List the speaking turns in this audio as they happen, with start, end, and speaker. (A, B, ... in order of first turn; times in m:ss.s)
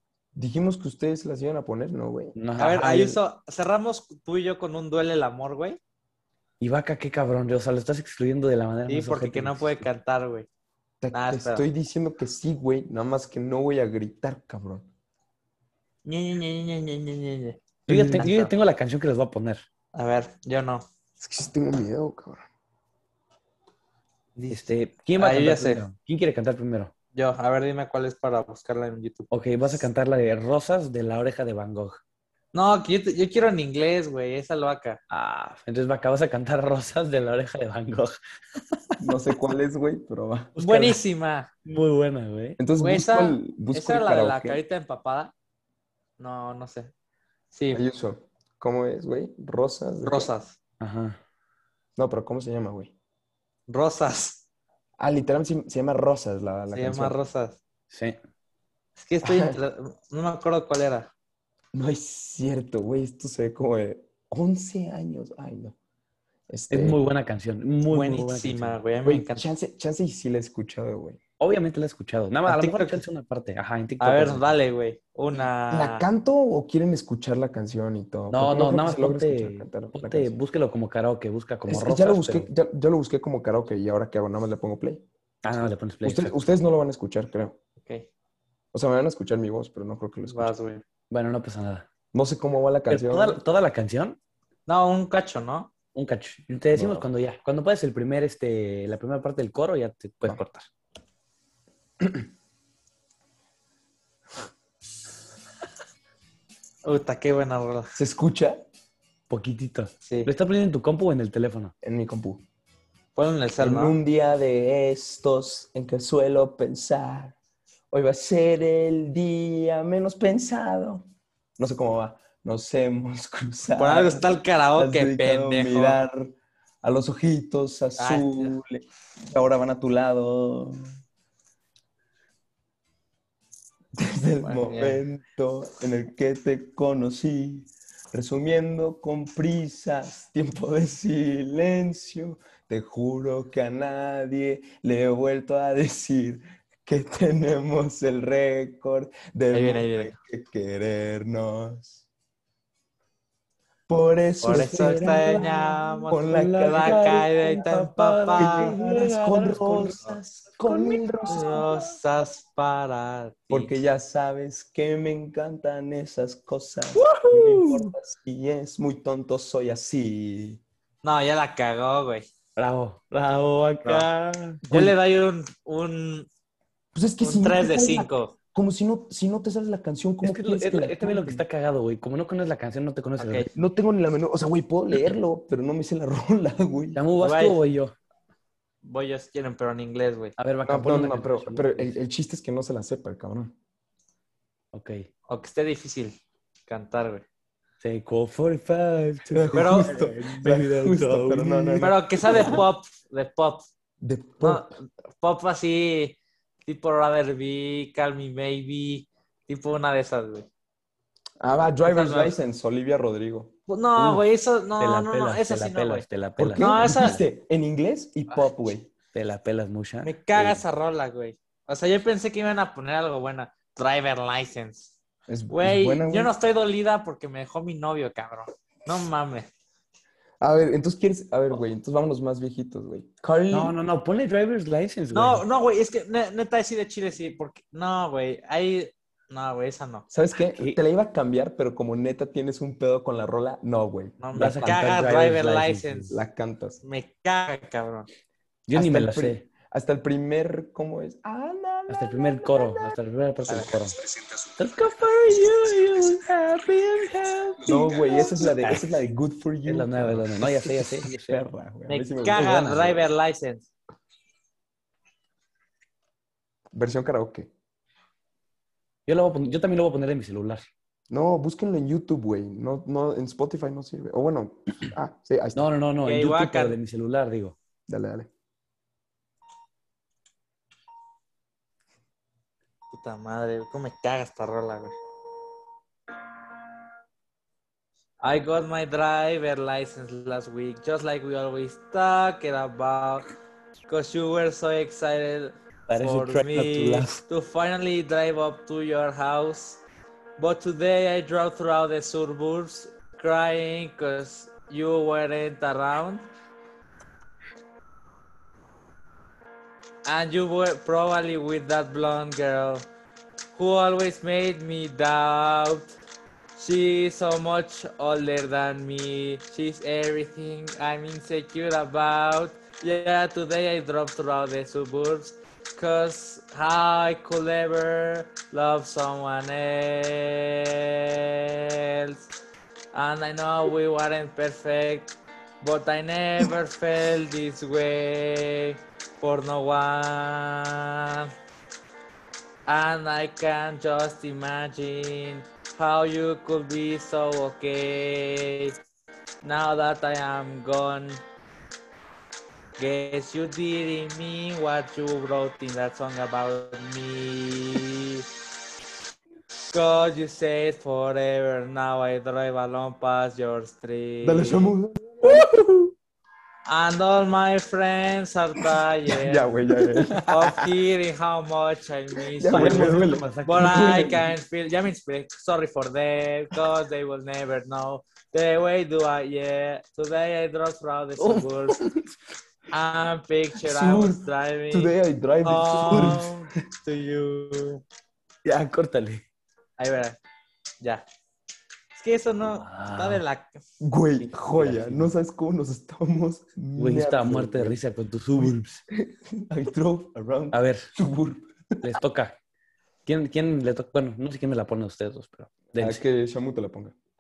0:00.4-0:02.4 A
0:02.4-0:03.2 B
0:02.6-0:05.8 C
0:06.6-0:09.8 B
0:08.9-0:10.5 C
0:11.0-0:14.9 A
0:11.1-0:11.6 C
0:16.0-0:18.5 C
0:17.9-0:19.6 B
0:19.9-0:20.9 C
0:21.2-0:22.4 A
0:24.4-0:25.8 C
0:24.5-0:26.9 B
0:27.1-0:29.8 C
0:29.3-0:32.0 B
0:32.5-0:35.0 C
0:35.1-0:38.2 B
0:39.0-0:40.6 A
0:40.6-0:41.5 C
0:40.6-0:41.0 B
0:41.6-0:42.6 B
0:42.6-0:44.6 A
0:42.8-0:45.3 C
0:46.2-0:46.9 C
0:47.5-0:47.8 C
0:47.7-0:50.3 A
0:50.1-0:50.6 C
0:50.8-0:51.2 B
0:52.0-0:52.9 A
0:53.7-0:54.4 C
0:55.0-0:57.2 A
0:56.7-0:57.6 C
0:57.9-0:58.2 B
0:59.0-1:01.1 C
0:59.2-0:59.6 A
1:01.7-1:05.8 A
1:06.5-1:07.0 A
1:06.7-1:08.8 B
1:07.9-1:09.5 C
1:09.0-1:11.2 A
1:11.4-1:14.5 B
1:12.5-1:13.0 C
1:14.0-1:16.0 C
1:15.7-1:20.3 A
1:18.3-1:22.5 B
1:21.7-1:25.0 A
1:25.4-1:26.4 B
1:26.0-1:27.6 A
1:27.8-1:28.1 C
1:28.7-1:30.5 A
1:30.3-1:30.8 C
1:31.1-1:31.9 B
1:32.1-1:33.4 A
1:32.9-1:34.2 B
1:34.7-1:35.7 C
1:35.9-1:40.7 B
1:36.7-1:37.1 A
1:42.0-1:42.3 A
1:46.8-1:47.9 C
1:48.0-1:48.6 A
1:49.3-1:51.7 B
1:50.1-1:50.3 C
1:51.8-1:52.4 A
1:53.2-1:54.0 C
1:53.6-1:57.4 A
1:57.9-2:01.1 A
2:01.6-2:11.0 A
2:03.8-2:06.0 C
2:08.0-2:08.6 C
2:14.0-2:32.0 A
2:14.4-2:15.0 C
2:29.5-2:30.2 C
2:33.9-2:35.5 A
2:34.4-2:38.8 C
2:34.5-2:41.9 B
2:36.1-2:37.3 A
2:38.4-2:41.9 A
2:41.3-2:43.7 C
2:43.5-2:50.6 A
2:47.0-2:47.9 B
2:51.0-2:52.3 C
2:52.6-2:54.6 B
2:54.6-2:56.3 C
2:54.7-2:55.0 A
2:56.9-3:01.4 A
2:57.2-2:58.4 C
3:00.2-3:03.5 B
3:03.2-3:03.5 C
3:03.5-3:07.0 A
3:07.0-3:08.0 B
3:07.2-3:07.6 C
3:08.8-3:10.4 C
3:10.4-3:12.0 B
3:10.6-3:13.6 A
3:14.7-3:15.1 B
3:15.3-3:16.2 C
3:16.7-3:17.2 C
3:17.8-3:22.6 B
3:19.3-3:22.7 A
3:19.6-3:20.0 C
3:21.8-3:23.7 C
3:24.0-3:24.7 A
3:24.4-3:30.5 C
3:31.4-3:33.5 A
3:31.9-3:32.4 C
3:33.7-3:36.0 C
3:34.0-3:34.2 B
3:34.8-3:37.2 B
3:36.4-3:38.9 A
3:36.6-3:37.2 C
3:39.1-3:40.6 B
3:40.0-3:44.9 C
3:45.3-3:46.3 A
3:45.5-3:49.5 C
3:50.4-3:53.8 A
3:53.5-3:55.4 B
3:55.1-4:00.1 C
4:00.1-4:04.8 A
4:04.2-4:06.2 C
4:04.4-4:06.1 B
4:06.1-4:06.8 A
4:06.8-4:08.1 C
4:08.7-4:09.5 B
4:08.7-4:13.0 A
4:11.9-4:14.0 B
4:14.6-4:18.8 B
4:17.6-4:23.0 A
4:18.4-4:18.8 C
4:19.7-4:21.4 B
4:21.9-4:23.7 C
4:22.4-4:22.9 B
4:26.7-4:27.5 A
4:29.1-4:30.7 B
4:31.1-4:35.7 A
4:35.6-4:37.6 B
4:36.0-4:36.8 C
4:37.9-4:38.3 A
4:42.9-4:44.9 C
4:48.2-4:53.3 C
4:53.9-4:59.8 C
4:55.9-4:57.2 B
5:00.4-5:06.3 C
5:10.0-5:12.9 C
5:13.6-5:16.0 C
5:16.6-5:32.3 C
5:32.9-5:41.3 C
5:42.7-5:48.8 C
5:49.4-5:51.2 C
5:52.8-5:58.2 C
5:59.7-6:04.7 C
6:04.2-6:05.9 A
6:06.7-6:21.8 C
6:09.1-6:10.6 A
6:12.3-6:14.3 A
6:12.5-6:14.3 B
6:22.7-6:27.8 C
6:23.6-6:26.4 A
6:28.4-6:29.2 B
6:29.8-6:30.2 C
6:32.0-6:33.6 C
6:32.4-6:33.2 B
6:33.8-6:37.8 A
6:34.4-6:35.1 B
6:36.8-6:38.8 B
6:38.4-6:41.8 A
6:40.5-6:40.9 B
6:41.8-6:42.4 B
6:43.1-6:46.0 B
6:45.8-6:47.0 A